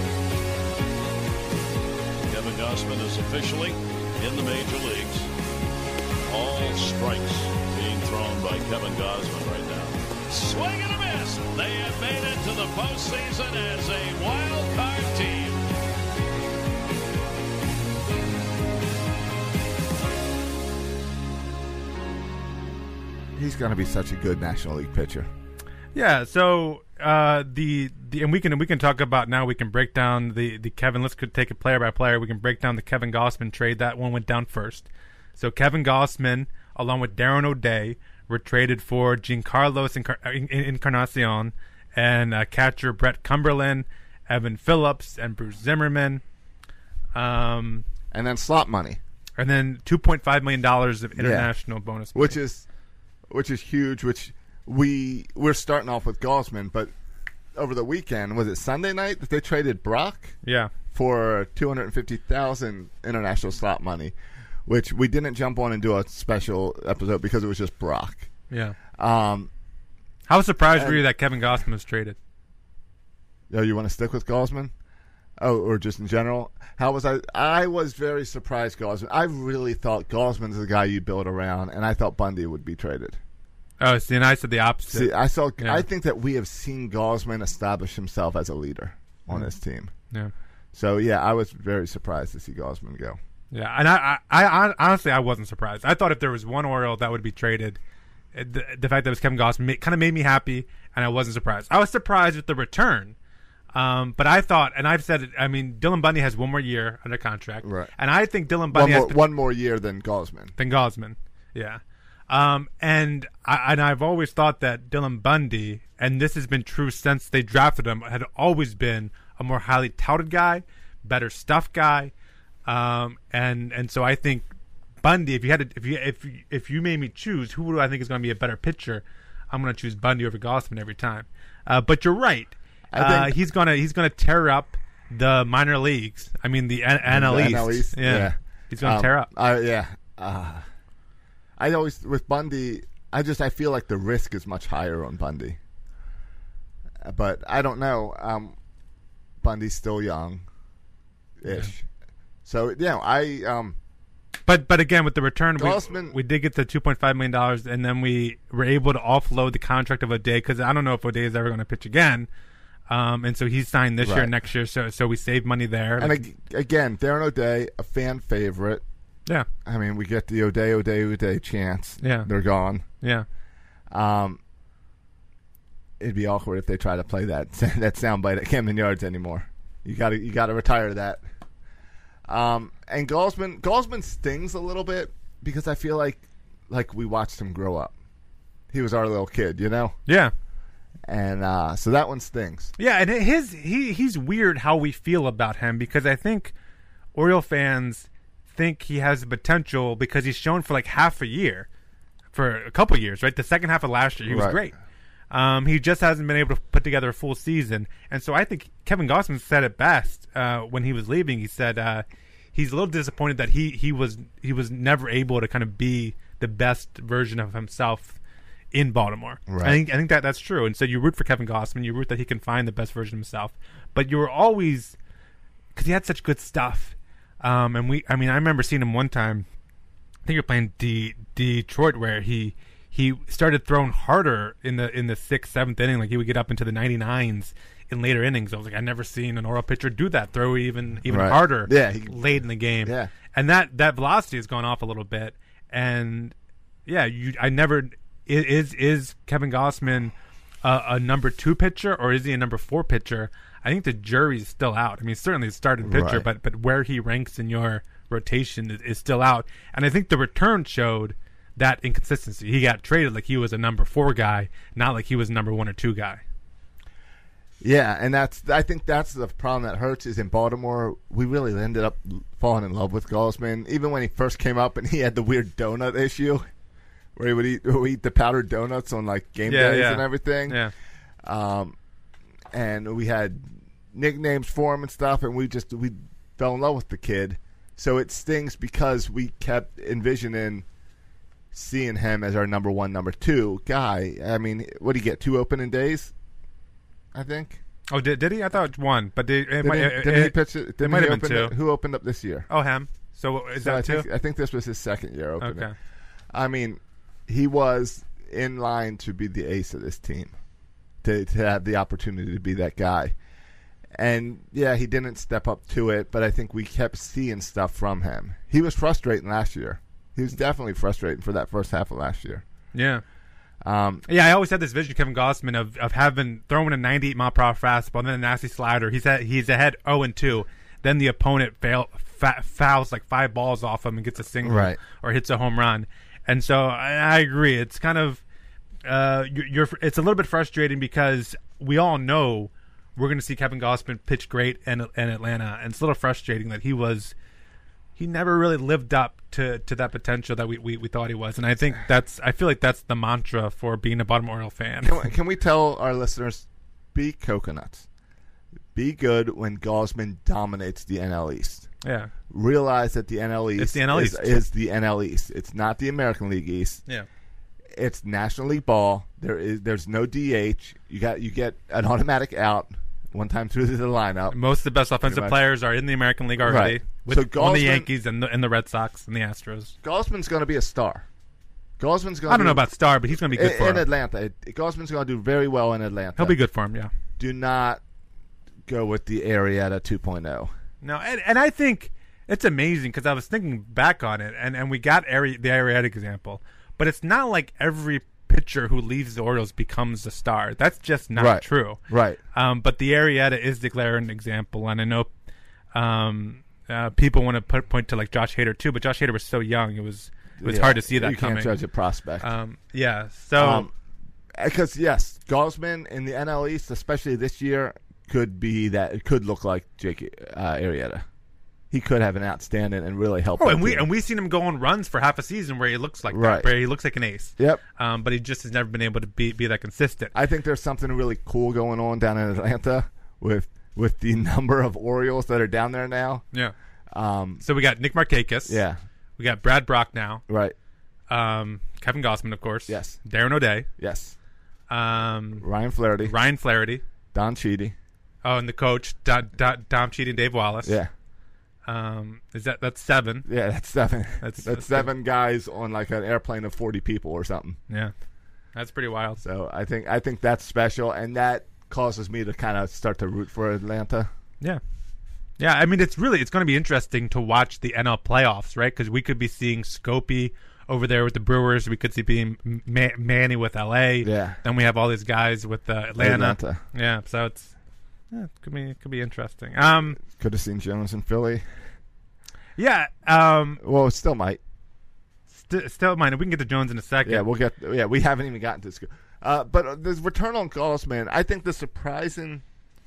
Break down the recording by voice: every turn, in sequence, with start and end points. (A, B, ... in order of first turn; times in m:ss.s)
0:02.2-0:05.3 A
0:06.3-0:15.6 A
0:23.4-0:25.3 B
0:26.0-0:46.2 C
0:47.2-0:47.9 C
0:48.1-0:49.0 B
0:49.4-0:52.4 C
0:51.2-0:51.5 B
0:52.1-0:52.7 B
0:53.3-0:56.9 B
0:57.5-1:00.4 B
1:00.4-1:00.7 C
1:00.9-1:04.1 B
1:04.7-1:08.3 B
1:08.5-1:08.8 C
1:08.9-1:09.5 B
1:10.3-1:12.2 C
1:10.7-1:11.0 B
1:13.5-1:14.7 B
1:15.4-1:23.2 B
1:23.8-1:25.9 C
1:24.9-1:29.9 B
1:30.7-1:33.2 B
1:33.5-1:37.8 C
1:38.3-1:43.2 C
1:43.7-1:49.2 C
1:47.6-1:47.9 B
1:48.7-1:50.5 B
1:50.6-2:02.1 C
2:02.7-2:04.5 C
2:05.0-2:19.3 C
2:12.9-2:13.4 B
2:17.1-2:20.6 B
2:21.6-2:25.6 B
2:27.0-2:28.6 B
2:29.4-2:30.4 B
2:31.4-2:31.9 B
2:32.5-2:33.8 B
2:34.5-2:42.3 C
2:35.6-2:36.2 B
2:42.9-2:46.2 C
2:44.0-2:44.3 B
2:46.0-2:48.8 B
2:49.6-2:52.8 B
2:52.0-2:52.3 C
2:53.0-2:53.3 C
2:53.9-2:54.4 B
2:56.0-3:01.2 B
3:02.3-3:07.9 B
3:08.7-3:10.0 B
3:10.1-3:10.3 C
3:11.0-3:12.7 B
3:12.8-3:16.5 C
3:17.2-3:21.7 C
3:22.3-3:24.7 C
3:24.3-3:24.6 B
3:25.3-3:38.2 C
3:38.7-3:45.0 C
3:39.5-3:39.8 B
3:45.8-3:49.5 C
3:50.3-4:06.3 C
4:01.1-4:02.2 B
4:02.8-4:03.1 B
4:06.9-4:26.2 C
4:15.8-4:16.3 B
4:27.6-4:36.4 B
4:37.2-4:40.6 B
4:39.5-4:40.7 C
4:41.2-4:41.8 B
4:42.5-4:50.6 B
4:51.5-4:56.1 B
4:57.1-4:57.6 B
4:57.9-5:01.5 C
4:59.6-5:02.5 B
5:02.5-5:04.1 C
5:03.6-5:05.7 B
5:05.4-5:05.7 C
5:06.3-5:10.3 B
5:11.0-5:13.2 B
5:14.0-5:22.4 B
5:22.7-5:23.0 C
5:23.6-5:24.0 B
5:24.1-5:38.2 C
5:34.4-5:34.8 B
5:38.8-5:47.1 C
5:48.0-5:55.0 C
5:54.8-5:57.9 B
5:58.8-6:01.7 B
6:01.8-6:02.1 C
6:02.3-6:06.8 B
6:03.6-6:04.4 C
6:07.7-6:14.4 B
6:14.3-6:19.7 C
6:15.0-6:15.4 B
6:16.4-6:17.9 B
6:19.8-6:21.0 B
6:21.8-6:22.6 B
6:22.3-6:23.9 C
6:23.2-6:26.4 B
6:26.2-6:26.9 C
6:27.2-6:27.8 B
6:28.7-6:30.5 B
6:30.8-6:41.8 C
6:41.2-6:42.2 B
6:42.3-6:45.1 C
6:45.7-6:51.6 C
6:50.4-6:52.3 B
6:52.2-6:53.7 C
6:53.4-6:53.7 B
6:54.4-7:01.0 B
7:01.7-7:03.9 B
7:03.4-7:10.1 C
7:06.1-7:06.5 B
7:10.1-7:16.2 B
7:16.9-7:17.4 B
7:17.4-7:18.6 C
7:18.5-7:18.8 B
7:19.2-7:20.2 C
7:20.3-7:20.6 B
7:21.1-7:23.7 C
7:22.7-7:23.0 B
7:23.8-7:24.2 B
7:24.7-7:25.5 C
7:25.4-7:26.2 B
7:26.0-7:26.8 C
7:27.1-7:27.8 B
7:28.2-7:30.8 C
7:30.6-7:30.9 B
7:31.7-7:33.3 C
7:33.2-7:37.6 B
7:34.2-7:34.9 C
7:38.6-7:39.2 C
7:39.2-7:44.1 B
7:45.4-7:57.5 C
7:54.0-7:54.4 B
7:56.0-7:56.6 B
7:58.1-8:00.0 C
8:00.0-8:01.4 B
8:02.6-8:03.6 C
8:03.6-8:04.4 B
8:05.3-8:07.2 C
8:07.0-8:12.4 B